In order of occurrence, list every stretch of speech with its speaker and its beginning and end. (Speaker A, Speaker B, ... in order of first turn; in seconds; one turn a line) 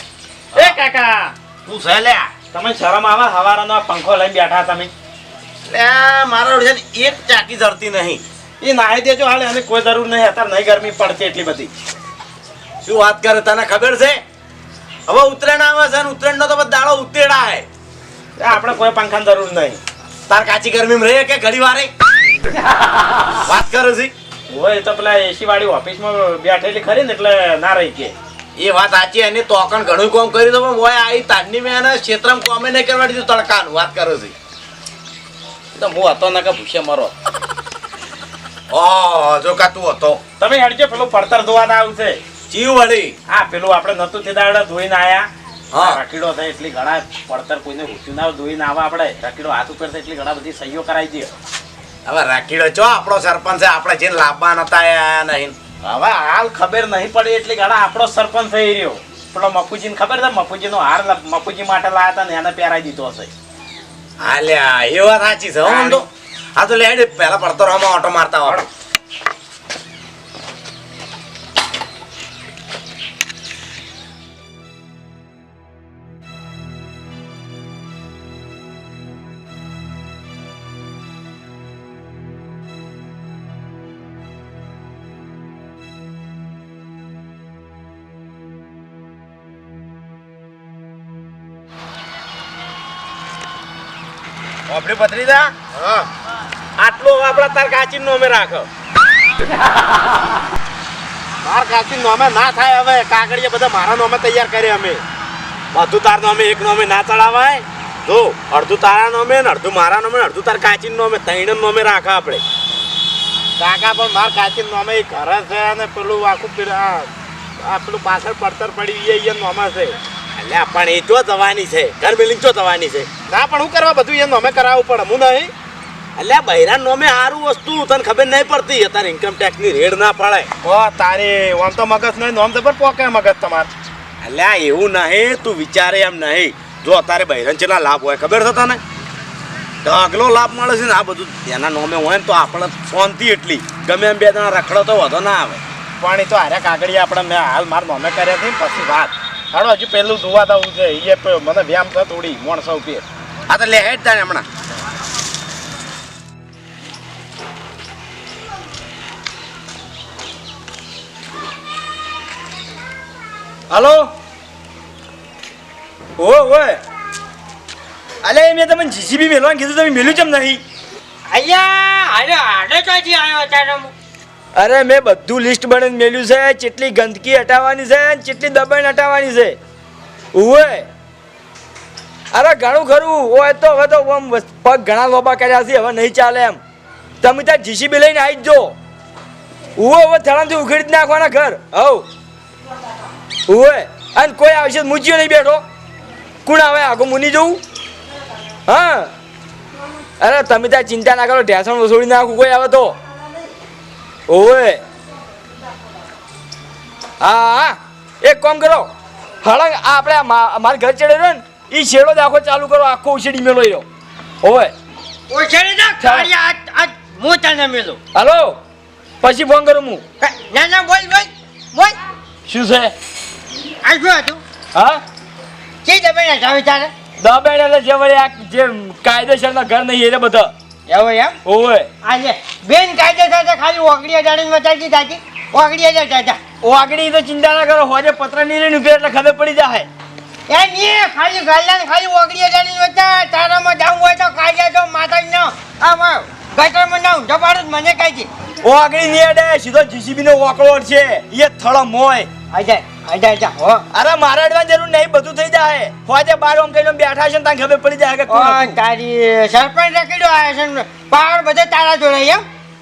Speaker A: 0.5-1.3
Speaker B: 1.6-2.3
Speaker A: 2.5-4.9
Speaker B: 5.7-8.2
Speaker A: 8.6-11.7
Speaker B: 12.8-14.2
Speaker B: 15.1-17.6
Speaker A: 18.4-19.8
Speaker B: 20.3-21.9
Speaker B: 23.4-24.1
Speaker A: 24.5-28.1
Speaker B: 28.6-34.3
Speaker B: 35.7-37.1
Speaker B: 38.7-40.2
Speaker A: 40.4-42.2
Speaker B: 42.5-43.1
Speaker A: 43.3-51.3
Speaker B: 45.7-46.0
Speaker B: 52.0-55.5
Speaker A: 55.8-63.3
Speaker B: 64.2-66.0
Speaker A: 65.6-66.0
Speaker B: 66.5-68.7
Speaker B: 94.7-96.0
Speaker A: 96.8-98.7
Speaker A: 101.4-105.0
Speaker A: 105.7-112.4
Speaker A: 113.6-117.1
Speaker A: 117.6-125.5
Speaker B: 120.8-123.0
Speaker B: 126.2-130.2
Speaker A: 130.2-133.7
Speaker B: 134.2-138.5
Speaker A: 136.8-138.8
Speaker B: 139.8-145.6
Speaker A: 146.0-153.0
Speaker B: 153.5-154.4
Speaker C: 163.7-164.1
Speaker C: 166.2-166.8
Speaker C: 168.2-170.6
Speaker D: 171.3-173.9
Speaker C: 174.6-179.6
Speaker C: 180.3-180.8
Speaker C: 182.3-186.6
Speaker C: 187.2-188.7
Speaker C: 189.8-192.1
Speaker C: 193.5-195.6
Speaker C: 196.4-197.6
Speaker C: 198.7-199.1
Speaker C: 200.2-202.9
Speaker C: 204.3-204.8
Speaker C: 207.2-208.9
Speaker C: 209.4-213.8
Speaker C: 214.4-214.7
Speaker D: 215.3-218.0
Speaker C: 216.0-216.3
Speaker C: 218.1-218.6
Speaker C: 219.2-220.0
Speaker D: 220.2-222.0
Speaker C: 222.5-222.9
Speaker D: 223.8-224.4
Speaker D: 225.8-226.9
Speaker C: 227.2-230.5
Speaker D: 230.9-231.4
Speaker C: 231.4-231.9
Speaker D: 232.0-236.4
Speaker C: 236.6-239.9
Speaker D: 240.5-248.3
Speaker C: 248.6-252.3
Speaker D: 252.5-253.8
Speaker C: 253.9-258.7
Speaker D: 258.3-262.4